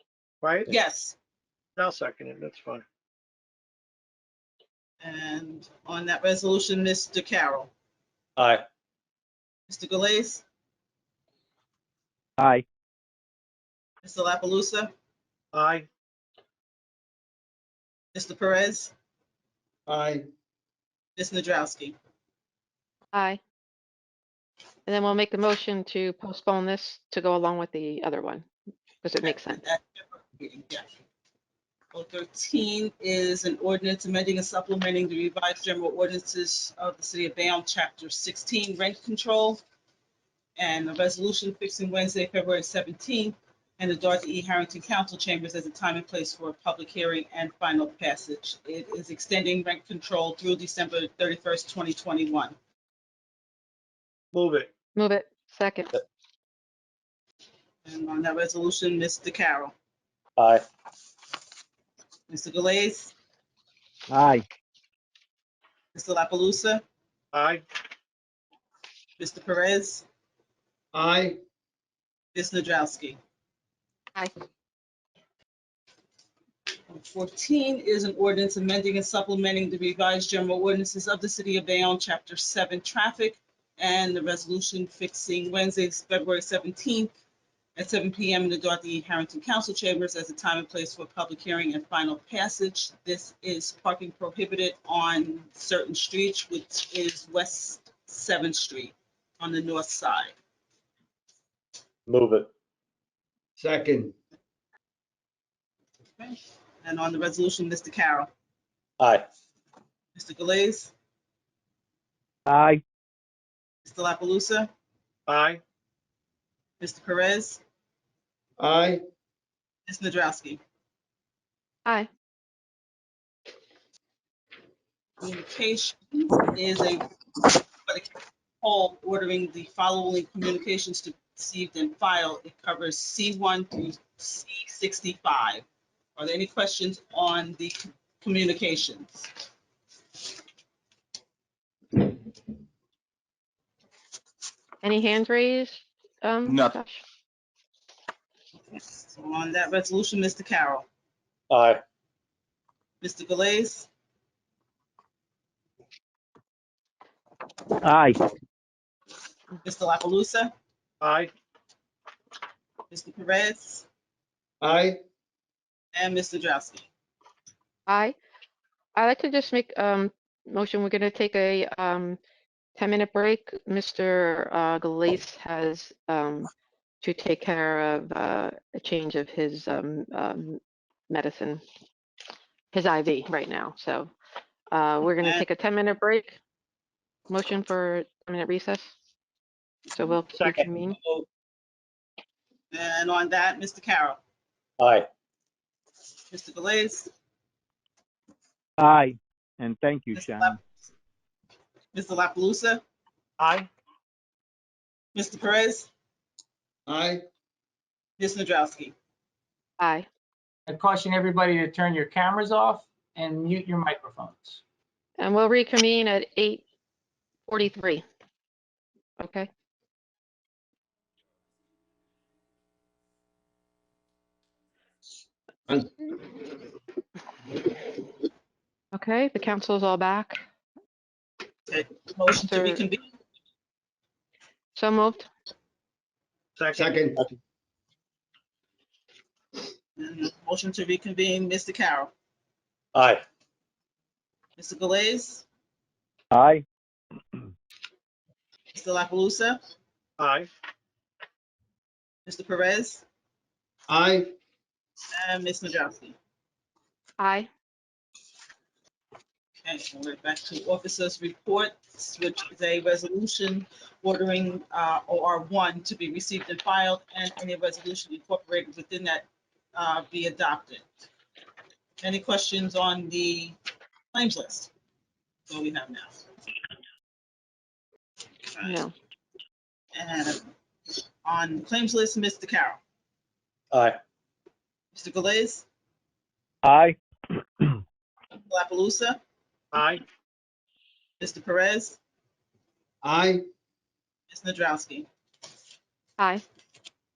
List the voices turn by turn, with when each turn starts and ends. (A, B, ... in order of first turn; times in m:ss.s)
0:00.4-0:00.7 A
0:00.7-0:01.1 B
0:01.8-0:02.8 A
0:05.0-0:07.7 B
0:08.4-0:08.6 C
0:09.7-0:10.4 B
0:12.4-0:12.6 D
0:14.0-0:14.9 B
0:15.5-0:15.9 A
0:18.1-0:18.9 B
0:19.8-0:20.2 E
0:21.2-0:22.0 B
0:23.1-0:23.4 F
0:24.8-0:28.5 F
0:29.0-0:29.6 F
0:29.2-0:30.9 B
0:31.9-0:39.6 B
0:40.6-0:52.6 B
0:54.3-0:54.7 A
0:54.9-0:55.9 F
0:57.8-0:59.7 B
1:00.4-1:00.6 C
1:02.3-1:03.1 B
1:04.1-1:04.4 D
1:05.9-1:06.8 B
1:07.3-1:07.6 A
1:09.2-1:10.0 B
1:10.9-1:11.4 E
1:12.3-1:13.2 B
1:16.9-1:27.1 B
1:27.8-1:40.3 B
1:42.1-1:42.5 C
1:43.6-1:44.1 E
1:46.2-1:48.3 B
1:49.0-1:49.2 C
1:50.1-1:50.9 B
1:52.5-1:52.8 D
1:53.8-1:54.7 B
1:55.3-1:55.6 A
1:56.8-1:57.6 B
1:58.6-1:59.0 E
1:59.9-2:00.6 B
2:05.2-2:07.0 B
2:07.8-2:15.6 B
2:16.2-2:19.3 B
2:24.8-2:27.0 F
2:28.7-2:30.8 B
2:31.5-2:31.8 C
2:33.0-2:33.9 B
2:37.8-2:38.2 D
2:39.6-2:40.5 B
2:41.0-2:41.3 A
2:42.9-2:43.9 B
2:44.6-2:45.0 E
2:45.9-2:46.9 B
2:47.9-2:48.2 F
2:48.9-2:52.2 F
2:52.8-2:56.5 F
2:57.0-3:01.6 F
3:02.7-3:04.1 F
3:04.7-3:06.4 F
3:05.0-3:05.4 B
3:07.3-3:08.9 F
3:09.9-3:11.0 F
3:10.4-3:10.6 A
3:12.7-3:14.2 B
3:14.8-3:15.1 C
3:16.3-3:17.1 B
3:18.8-3:20.6 D
3:20.1-3:20.5 B
3:21.9-3:22.8 B
3:23.4-3:23.7 A
3:25.1-3:25.9 B
3:26.9-3:27.2 E
3:28.2-3:28.9 B
3:29.8-3:30.1 F
3:30.7-3:34.6 G
3:35.2-3:36.6 F
3:37.5-3:38.0 F
3:39.2-3:39.5 F
3:48.9-3:50.4 F
3:51.7-3:53.0 B
3:52.4-3:52.8 F
3:54.7-3:55.3 F
3:56.6-3:57.0 A
3:56.8-3:57.2 E
4:00.0-4:02.1 B
4:02.9-4:03.2 C
4:04.6-4:05.4 B
4:06.3-4:06.6 D
4:08.7-4:09.6 B
4:10.2-4:10.5 A
4:12.2-4:13.0 B
4:13.9-4:14.3 E
4:15.1-4:16.2 B
4:17.2-4:17.5 F
4:19.6-4:30.9 B
4:32.0-4:33.6 B
4:34.1-4:34.7 B
4:35.5-4:36.2 B
4:38.4-4:38.8 B
4:38.6-4:38.9 F
4:39.9-4:40.5 B
4:41.2-4:42.8 B
4:43.7-4:44.0 C
4:44.9-4:45.6 B
4:46.6-4:47.0 D
4:48.5-4:49.2 B
4:49.7-4:50.0 A
4:51.2-4:52.0 B
4:53.0-4:53.4 E
4:54.3-4:55.1 B
4:56.2-4:56.4 F